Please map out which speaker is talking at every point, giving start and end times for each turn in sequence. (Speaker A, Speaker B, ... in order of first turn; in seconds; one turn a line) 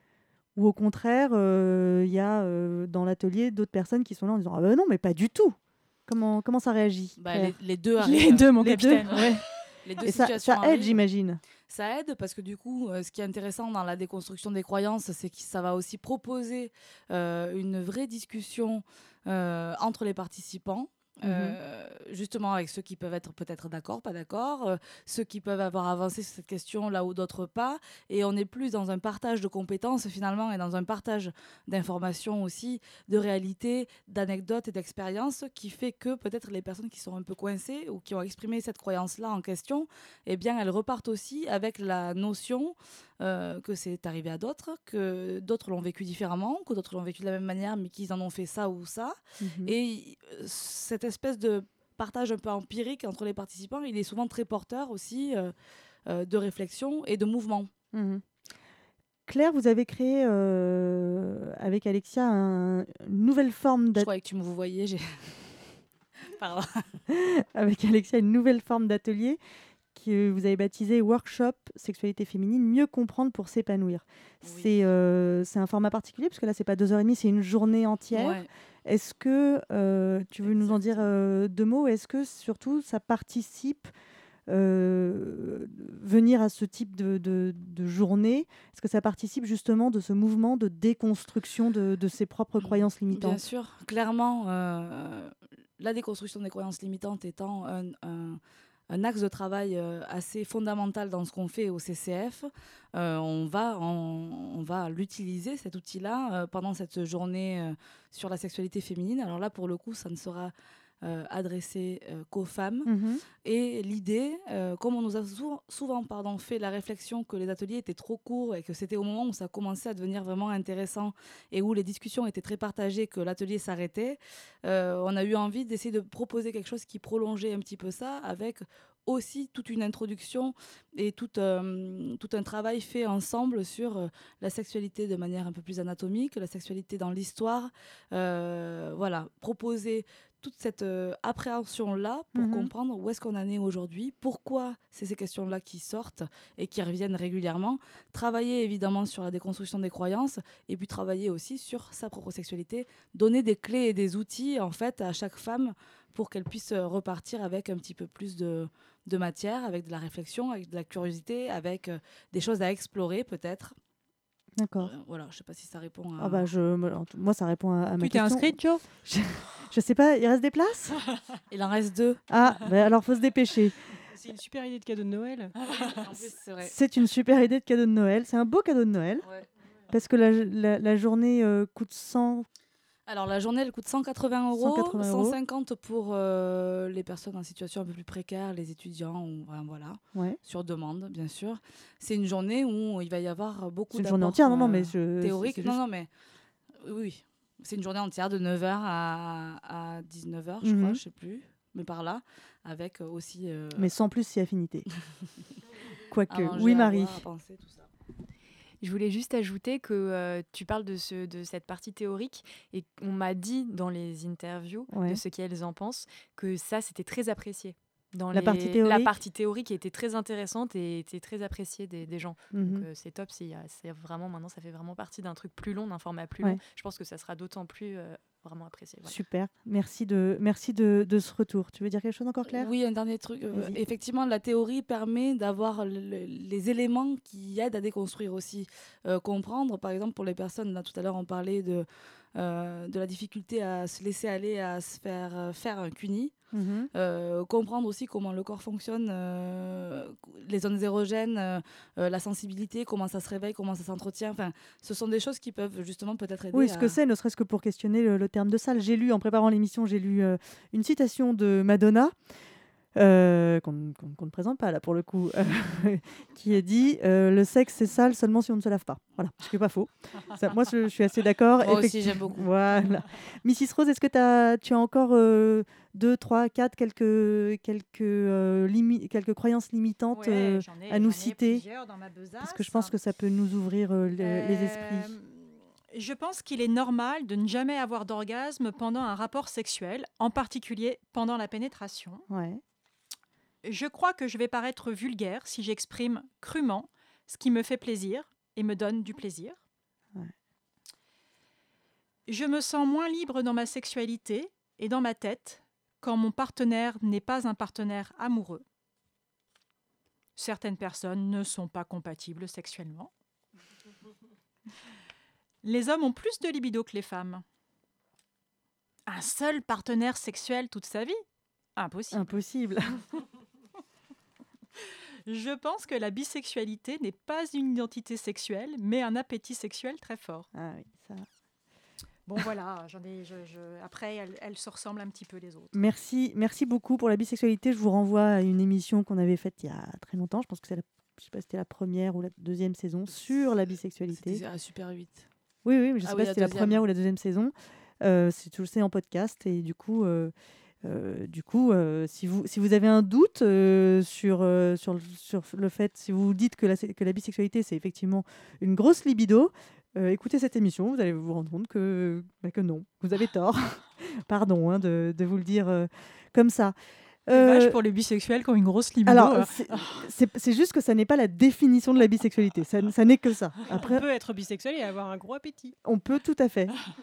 Speaker A: 0.5-5.5
Speaker A: 6.1-7.6
Speaker B: 7.2-8.5
Speaker C: 8.0-9.2
Speaker A: 8.1-9.4
Speaker B: 9.8-11.0
Speaker A: 10.0-11.4
Speaker B: 11.7-55.5
Speaker A: 21.2-21.6
Speaker A: 49.4-49.7
Speaker B: 56.1-57.7
Speaker A: 57.9-58.2
Speaker A: 59.3-64.1
Speaker B: 64.0-65.4
Speaker B: 66.2-66.9
Speaker A: 67.1-69.4
Speaker A: 69.9-83.9
Speaker B: 74.4-74.7
Speaker B: 78.1-78.5
Speaker B: 80.4-81.1
Speaker A: 84.5-93.4
Speaker B: 92.6-112.9
Speaker A: 112.8-113.2
Speaker B: 113.4-163.7
Speaker A: 142.3-142.7
Speaker A: 164.6-164.9
Speaker B: 164.8-166.5
Speaker A: 166.2-171.0
Speaker C: 168.0-168.8
Speaker B: 171.5-172.7
Speaker A: 172.3-173.7
Speaker D: 174.1-175.5
Speaker B: 175.6-176.7
Speaker A: 176.6-179.2
Speaker A: 179.9-182.4
Speaker B: 183.1-196.1
Speaker A: 184.5-185.4
Speaker A: 193.9-195.8
Speaker B: 196.8-203.9
Speaker A: 200.6-201.0
Speaker A: 203.8-204.8
Speaker A: 206.1-207.2
Speaker B: 206.3-207.9
Speaker E: 208.8-229.2
Speaker A: 214.9-215.2
Speaker A: 218.3-219.2
Speaker A: 222.5-222.8
Speaker A: 229.1-232.7
Speaker B: 232.5-246.3
Speaker A: 233.5-233.8
Speaker A: 246.5-246.9
Speaker B: 246.9-257.0
Speaker A: 256.5-262.1
Speaker A: 262.9-281.6
Speaker B: 271.6-272.4
Speaker C: 280.1-282.9
Speaker A: 282.4-285.1
Speaker C: 284.2-292.2
Speaker A: 292.3-292.6
Speaker C: 293.6-299.6
Speaker C: 302.3-308.6
Speaker C: 310.4-313.1
Speaker C: 315.6-317.4
Speaker C: 319.1-321.2
Speaker C: 321.8-322.3
Speaker A: 322.1-323.0
Speaker C: 325.3-330.5
Speaker A: 330.5-331.3
Speaker C: 332.3-335.7
Speaker A: 335.7-344.4
Speaker B: 344.1-345.3
Speaker A: 345.6-350.3
Speaker B: 346.0-346.9
Speaker A: 350.8-367.8
Speaker C: 367.3-369.8
Speaker A: 369.1-374.1
Speaker D: 373.7-375.7
Speaker A: 375.8-376.7